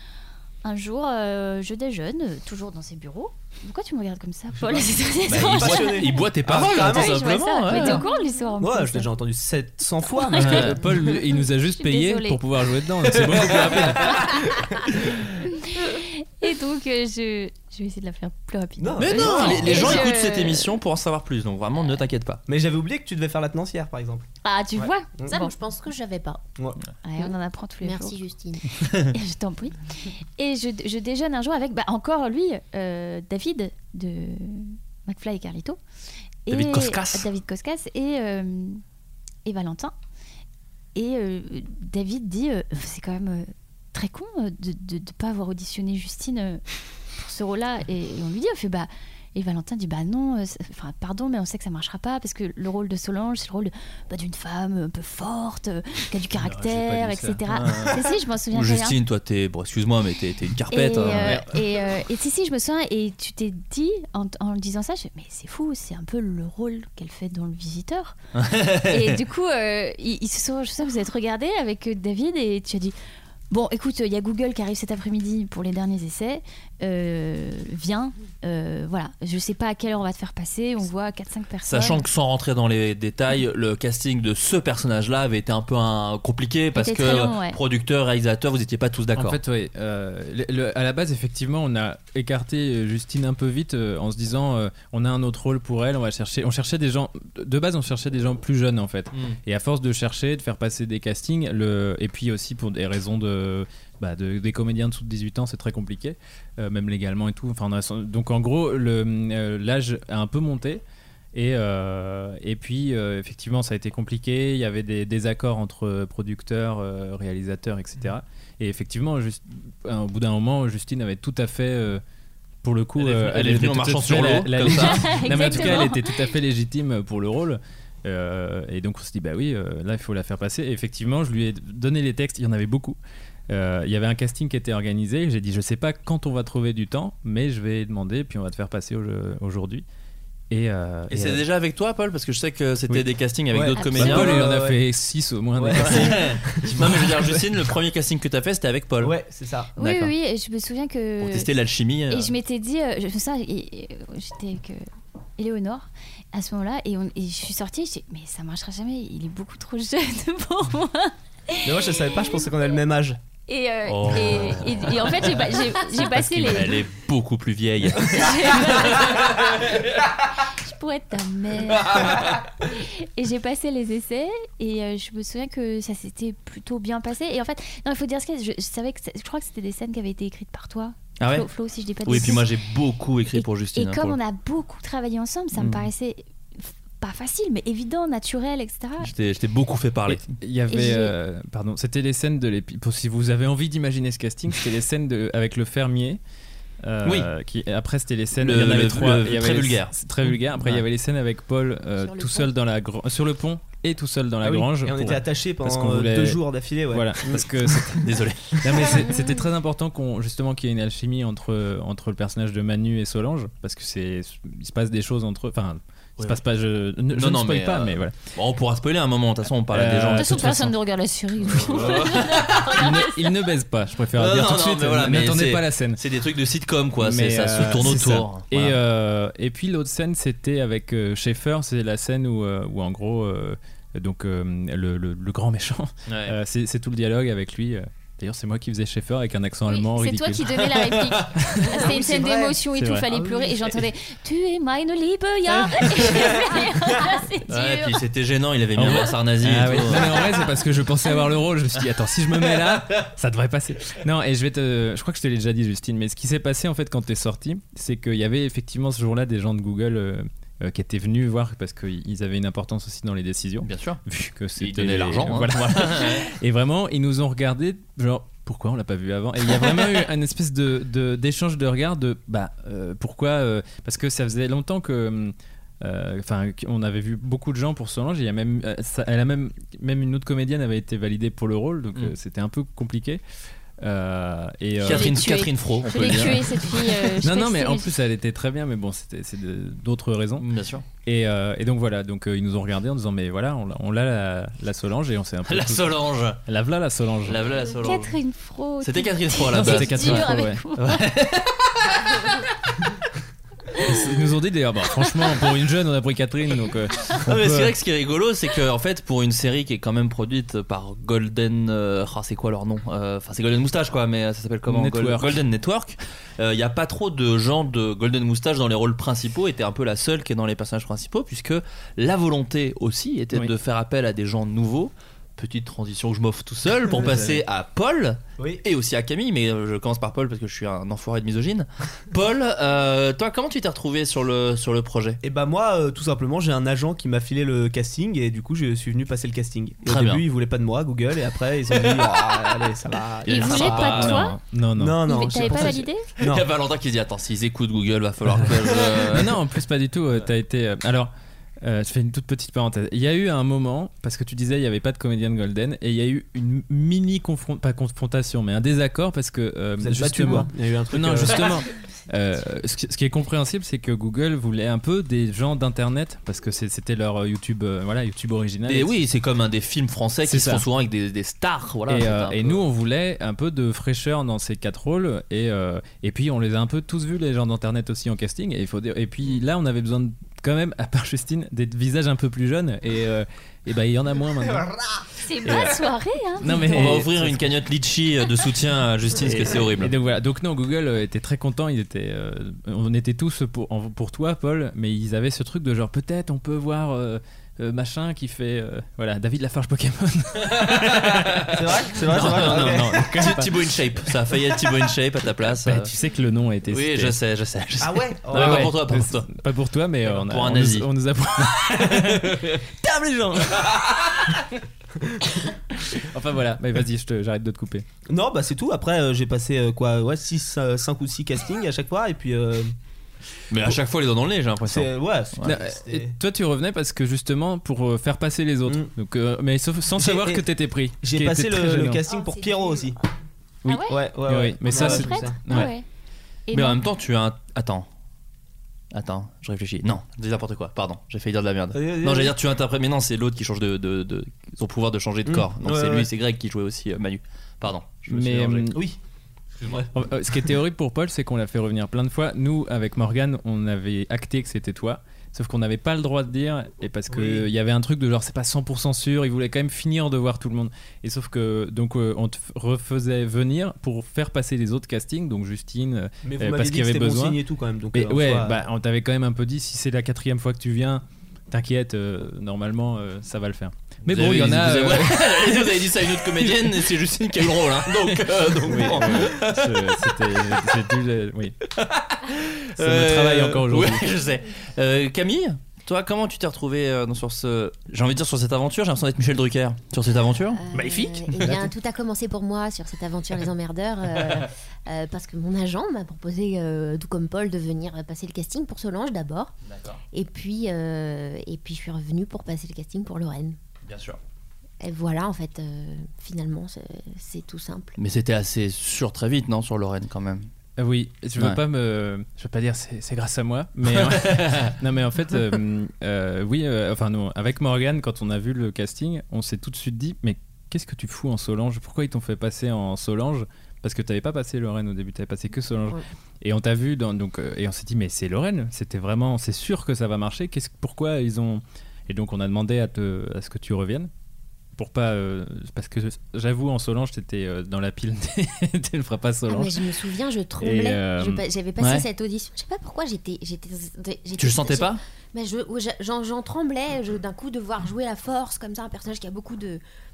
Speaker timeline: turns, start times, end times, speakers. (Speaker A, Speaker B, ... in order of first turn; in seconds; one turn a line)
Speaker A: 0.6-6.2
Speaker B: 4.6-4.8
Speaker C: 5.3-8.0
Speaker B: 5.4-8.1
Speaker A: 6.8-9.1
Speaker B: 8.6-10.7
Speaker A: 10.1-12.4
Speaker D: 10.3-14.2
Speaker C: 10.4-10.7
Speaker A: 15.8-20.7
Speaker B: 18.8-20.0
Speaker C: 19.0-22.4
Speaker B: 22.5-24.2
Speaker A: 24.4-25.5
Speaker B: 24.8-25.4
Speaker E: 25.3-26.5
Speaker A: 27.0-28.2
Speaker E: 27.8-28.6
Speaker A: 29.1-29.8
Speaker A: 30.4-35.8
Speaker A: 36.5-38.8
Speaker C: 36.5-37.3
Speaker A: 39.4-39.9
Speaker A: 40.9-46.6
Speaker A: 47.2-59.0
Speaker D: 56.4-57.4
Speaker C: 57.5-61.4
Speaker A: 60.7-68.1
Speaker D: 61.2-61.5
Speaker C: 68.3-69.2
Speaker A: 68.9-72.9
Speaker A: 73.5-82.0
Speaker C: 81.7-89.4
Speaker A: 86.7-87.6
Speaker D: 89.2-110.8
Speaker C: 99.1-99.4
Speaker D: 111.3-122.0
Speaker D: 122.6-133.0
Speaker C: 123.0-125.9
Speaker A: 124.7-126.2
Speaker D: 133.5-139.8
Speaker D: 140.5-141.4
Speaker C: 141.1-144.5
Speaker B: 143.5-144.8
Speaker A: 143.7-144.2
Speaker D: 144.0-146.1
Speaker B: 145.6-147.3
Speaker C: 145.8-149.2
Speaker B: 149.0-149.7
Speaker A: 149.8-151.5
Speaker D: 149.8-150.1
Speaker C: 151.2-152.3
Speaker A: 152.1-154.8
Speaker A: 155.4-162.3
Speaker B: 161.6-163.2
Speaker A: 163.5-166.8
Speaker C: 163.8-169.4
Speaker A: 168.1-169.4
Speaker A: 170.5-182.5
Speaker C: 171.8-172.3
Speaker C: 181.2-181.5
Speaker C: 182.0-184.2
Speaker A: 183.3-189.1
Speaker C: 185.6-185.9
Speaker C: 189.0-190.3
Speaker D: 190.1-196.2
Speaker A: 190.7-191.1
Speaker D: 196.8-208.1
Speaker C: 198.4-199.9
Speaker E: 202.0-202.5
Speaker B: 204.4-207.4
Speaker C: 208.0-209.0
Speaker D: 208.6-218.2
Speaker C: 217.1-220.6
Speaker D: 219.7-220.7
Speaker A: 220.1-223.4
Speaker C: 221.5-222.9
Speaker D: 222.7-226.0
Speaker C: 224.2-228.8
Speaker D: 227.0-240.4
Speaker C: 236.1-236.3
Speaker A: 239.7-248.0
Speaker B: 241.7-242.6
Speaker D: 242.7-243.1
Speaker B: 243.1-243.7
Speaker C: 245.8-246.4
Speaker B: 246.2-247.0
Speaker C: 247.5-250.3
Speaker D: 248.8-283.2
Speaker C: 263.6-264.0
Speaker C: 264.6-266.3
Speaker C: 269.6-269.9
Speaker D: 283.8-285.1
Speaker C: 284.8-287.1
Speaker A: 284.8-287.9
Speaker D: 287.2-290.4
Speaker C: 290.4-290.8
Speaker D: 291.0-297.4
Speaker C: 295.5-296.4
Speaker C: 297.2-298.1
Speaker A: 297.6-301.1
Speaker C: 298.8-300.2
Speaker D: 299.5-300.6
Speaker C: 300.8-302.3
Speaker D: 303.8-307.7
Speaker C: 307.2-335.2
Speaker D: 314.7-315.4
Speaker B: 326.9-327.2
Speaker D: 327.0-327.3
Speaker B: 335.2-344.2
Speaker C: 339.8-340.2
Speaker A: 343.2-344.4
Speaker C: 343.3-344.2
Speaker D: 343.8-345.1
Speaker B: 344.8-346.4
Speaker A: 345.0-346.1
Speaker C: 346.2-349.4
Speaker D: 349.1-368.9
Speaker B: 359.8-361.6
Speaker C: 368.7-372.6
Speaker D: 370.2-370.6
Speaker D: 371.9-384.7
Speaker A: 385.2-387.0
Speaker D: 385.4-385.8
Speaker D: 386.4-387.5
Speaker C: 386.6-389.9
Speaker D: 389.3-401.5
Speaker C: 400.5-405.9
Speaker B: 401.5-403.1
Speaker D: 402.1-403.5
Speaker D: 405.5-407.1
Speaker C: 406.7-409.3
Speaker B: 407.8-408.7
Speaker D: 408.3-414.3
Speaker C: 410.0-410.9
Speaker C: 411.7-412.2
Speaker D: 415.8-417.9
Speaker B: 418.1-422.7
Speaker C: 423.5-425.6
Speaker B: 424.6-426.1
Speaker D: 425.4-432.0
Speaker B: 430.0-430.4
Speaker B: 431.0-433.0
Speaker E: 432.1-433.0
Speaker D: 433.6-435.7
Speaker A: 433.6-434.0
Speaker B: 433.9-435.4
Speaker A: 434.6-435.8
Speaker A: 436.5-436.8
Speaker C: 436.5-437.9
Speaker C: 438.9-448.8
Speaker B: 441.7-442.3
Speaker B: 445.2-446.1
Speaker D: 448.1-448.8
Speaker D: 449.9-467.4
Speaker B: 457.1-457.4
Speaker B: 466.2-468.6
Speaker D: 467.9-475.7
Speaker C: 474.1-480.1
Speaker D: 476.3-476.8
Speaker D: 478.0-481.6
Speaker C: 481.8-491.6
Speaker D: 482.8-484.0
Speaker E: 490.6-499.5
Speaker C: 499.6-500.0
Speaker E: 500.1-503.6
Speaker C: 503.9-504.2
Speaker E: 504.8-507.9
Speaker C: 508.0-510.5
Speaker D: 510.8-534.1
Speaker C: 513.9-514.7
Speaker D: 534.8-539.8
Speaker E: 539.5-549.8
Speaker D: 540.6-541.4
Speaker C: 541.8-542.0
Speaker C: 544.4-545.0